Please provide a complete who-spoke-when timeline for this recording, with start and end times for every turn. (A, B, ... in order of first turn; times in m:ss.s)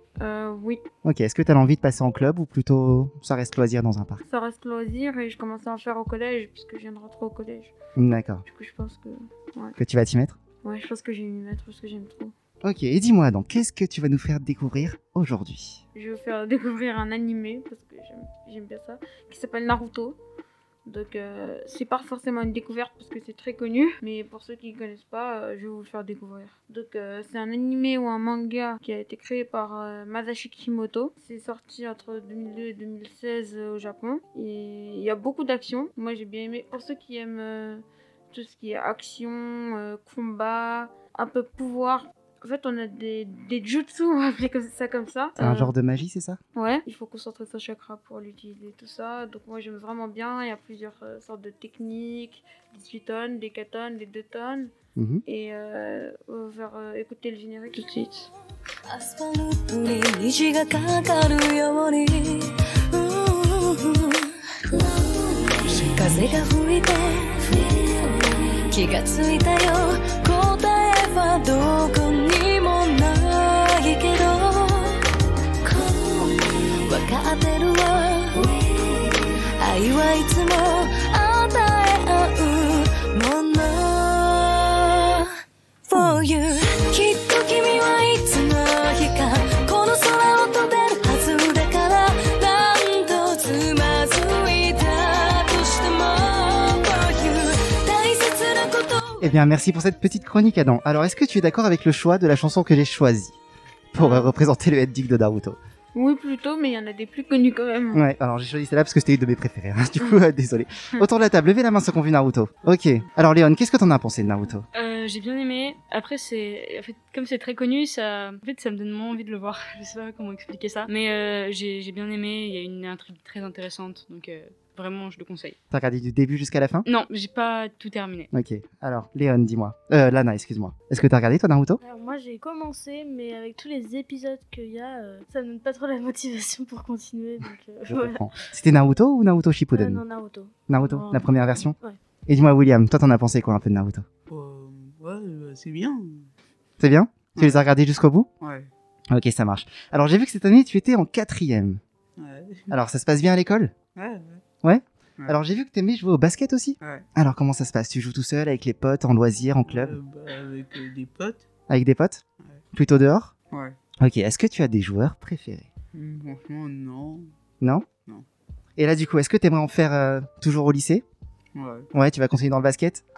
0:00.2-0:00.8 A
0:01.0-0:04.2 B
0:04.3-0:07.7 A
0:08.0-0:08.4 B
0:08.5-0:09.8 A
0:09.8-0:10.4 B
0:10.6-0:12.3 A
0:12.6-0:15.8 B
0:15.9-0:20.2 A
0:20.9-0:45.7 A
0:45.4-0:46.4 B
0:46.6-0:54.7 A
0:55.0-0:55.2 B
0:55.3-0:58.3 A
0:58.9-1:15.0 C
1:05.7-1:06.4 D
1:15.6-1:25.3 C
1:25.9-1:39.3 C
1:39.2-1:43.4 B
1:43.9-1:45.6 B
1:44.0-1:44.4 A
1:45.9-1:48.0 A
1:47.9-1:54.7 B
1:54.7-2:05.6 E
2:05.7-2:06.9 B
2:06.9-2:08.3 E
2:08.3-2:11.8 B
2:11.8-2:18.2 F
2:17.9-2:20.0 B
2:19.7-2:22.0 F
2:20.7-2:21.8 B
2:22.3-2:24.1 B
2:24.3-2:26.3 D
2:26.8-2:28.3 B
2:28.4-2:28.7 D
2:29.1-2:31.8 B
2:32.2-2:32.7 D
2:32.7-2:33.7 B
2:34.0-2:34.4 D
2:34.6-2:40.0 B
2:39.7-2:41.4 D
2:41.7-2:42.2 B
2:42.7-2:43.3 B
2:44.0-2:45.7 B
2:45.9-2:47.3 D
2:47.6-2:47.9 B
2:48.8-2:51.0 B
2:51.6-2:51.9 D
2:51.9-2:53.0 B